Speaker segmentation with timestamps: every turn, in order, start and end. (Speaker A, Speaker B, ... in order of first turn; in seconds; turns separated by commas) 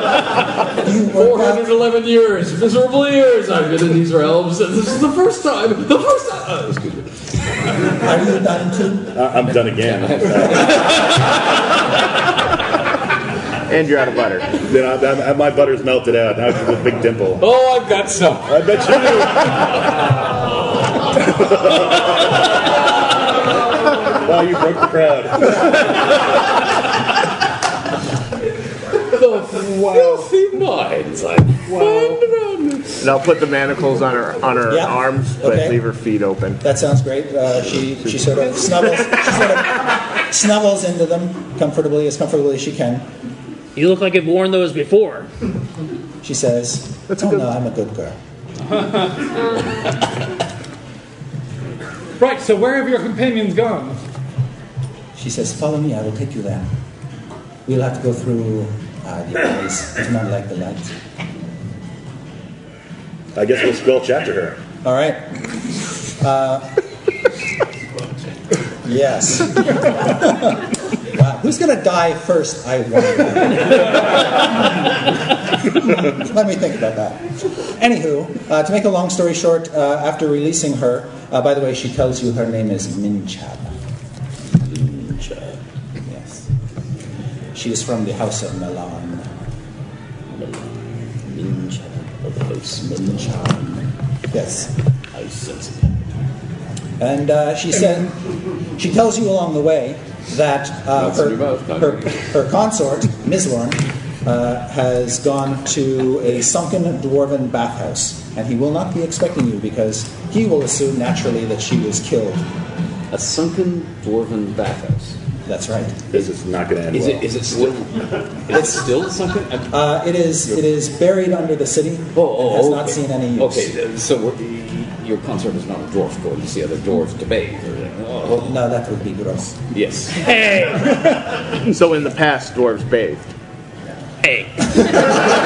Speaker A: 0.8-1.7, Speaker B: 0.9-7.3, Speaker A: 8.0-9.2, Speaker C: 9.1-10.8, Speaker B: 9.8-11.0, Speaker D: 13.7-14.5, Speaker C: 14.7-17.5, Speaker B: 17.4-18.6, Speaker C: 18.5-19.6, Speaker C: 21.6-21.9, Speaker C: 24.2-25.8, Speaker B: 29.1-33.1, Speaker E: 29.7-30.3, Speaker E: 31.7-32.2, Speaker D: 33.0-36.6, Speaker A: 34.7-35.8, Speaker A: 36.6-43.1, Speaker F: 43.8-45.3, Speaker A: 46.2-48.2, Speaker E: 52.2-54.0, Speaker A: 55.1-56.7, Speaker A: 57.7-61.0, Speaker C: 63.4-64.6, Speaker A: 64.8-65.2, Speaker A: 66.2-66.7, Speaker A: 68.8-74.4, Speaker A: 75.6-83.7, Speaker B: 84.5-85.6, Speaker A: 86.1-86.5, Speaker A: 87.5-89.3, Speaker B: 90.3-93.4, Speaker A: 92.8-93.8, Speaker A: 94.3-94.7, Speaker B: 95.1-96.0, Speaker A: 97.0-98.2, Speaker A: 98.8-112.5, Speaker B: 101.0-102.2, Speaker B: 113.1-115.2, Speaker A: 115.5-116.0, Speaker C: 116.1-117.6, Speaker B: 116.9-119.9, Speaker A: 118.5-118.9, Speaker A: 119.7-123.7, Speaker B: 122.2-128.5, Speaker A: 128.2-129.6, Speaker B: 129.7-130.2, Speaker F: 130.2-130.9, Speaker D: 131.7-133.2, Speaker F: 134.2-134.5